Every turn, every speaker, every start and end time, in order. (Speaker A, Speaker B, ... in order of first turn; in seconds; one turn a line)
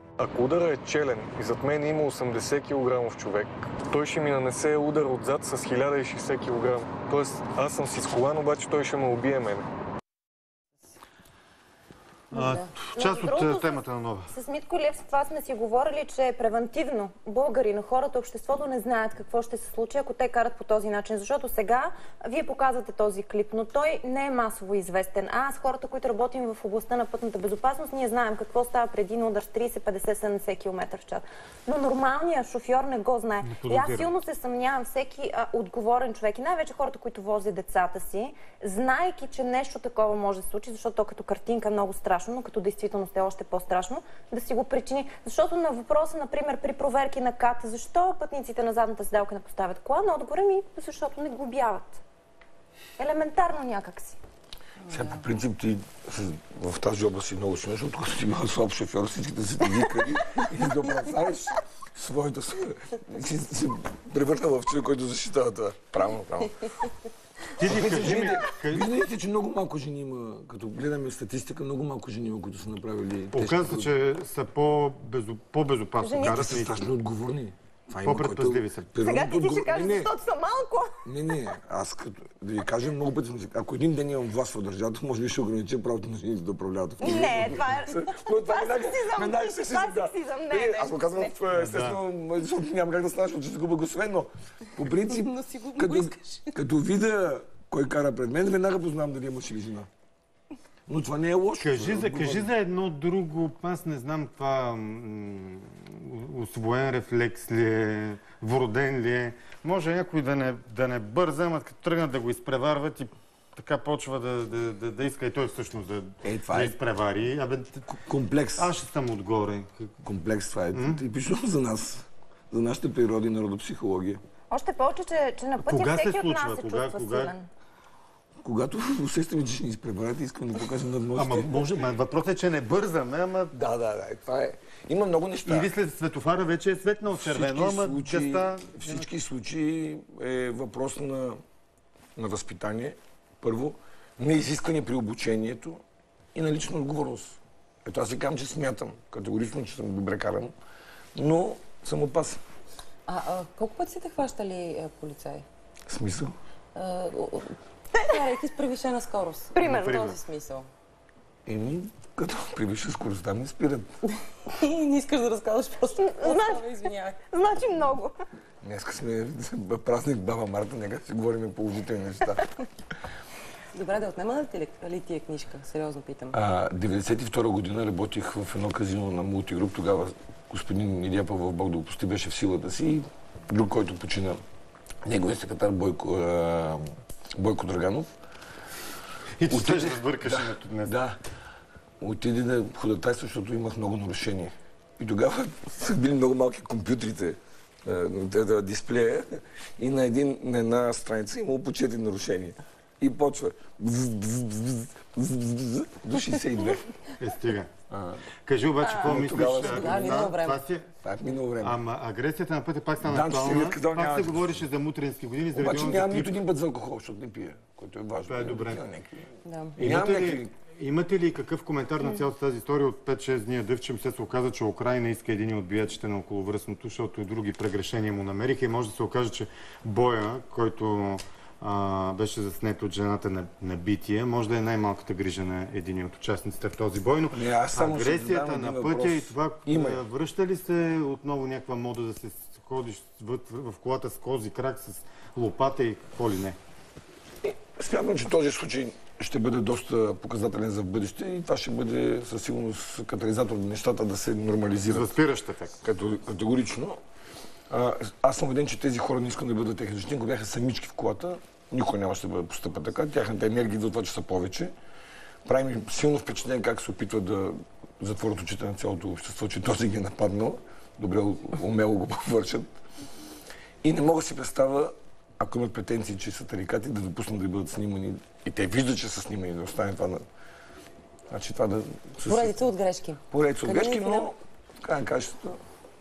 Speaker A: 0.2-9.7
Speaker B: 12.3-14.3
Speaker C: 12.3-52.0
Speaker B: 33.4-34.1
Speaker C: 53.0-54.2
Speaker D: 54.9-66.7
Speaker B: 67.5-68.9
Speaker D: 67.6-73.9
Speaker B: 73.3-76.8
Speaker C: 76.0-76.5
Speaker D: 76.2-80.1
Speaker B: 78.0-78.9
Speaker C: 79.0-81.3
Speaker D: 81.0-99.9
Speaker C: 87.0-91.4
Speaker B: 91.5-92.0
Speaker E: 94.9-96.5
Speaker D: 100.9-102.5
Speaker B: 101.6-117.8
Speaker D: 116.2-116.8
Speaker D: 117.9-118.7
Speaker B: 118.6-119.9
Speaker D: 120.0-124.2
Speaker B: 120.7-121.0
Speaker C: 124.5-127.5
Speaker B: 125.6-127.3
Speaker D: 128.4-131.5
Speaker B: 131.1-133.5
Speaker D: 133.5-135.7
Speaker B: 135.4-139.1
Speaker D: 137.1-141.4
Speaker D: 142.2-145.8
Speaker D: 146.3-150.5
Speaker D: 151.2-152.4
Speaker E: 153.1-155.4
Speaker D: 155.9-156.3
Speaker E: 156.7-160.7
Speaker C: 159.5-160.1
Speaker B: 159.6-160.2
Speaker D: 161.4-163.9
Speaker E: 164.4-167.2
Speaker C: 166.0-168.1
Speaker D: 168.6-172.4
Speaker E: 173.7-176.3
Speaker D: 176.3-184.4
Speaker D: 185.0-188.1
Speaker B: 189.4-191.0
Speaker D: 189.5-191.2
Speaker D: 192.0-206.8
Speaker B: 207.2-207.7
Speaker D: 207.9-208.2
Speaker B: 208.4-210.9
Speaker E: 208.8-210.6
Speaker D: 209.0-210.3
Speaker D: 211.0-211.8
Speaker B: 211.6-216.3
Speaker D: 213.0-214.6
Speaker D: 215.5-219.3
Speaker B: 218.3-218.8
Speaker E: 219.4-219.8
Speaker B: 219.8-246.6
Speaker D: 219.8-220.5
Speaker D: 237.3-240.0
Speaker D: 247.4-255.1
Speaker B: 254.9-255.7
Speaker D: 255.8-257.0
Speaker D: 257.7-264.7
Speaker D: 265.4-272.7
Speaker D: 273.8-280.2
Speaker D: 281.3-282.6
Speaker E: 282.2-284.3
Speaker D: 283.3-285.6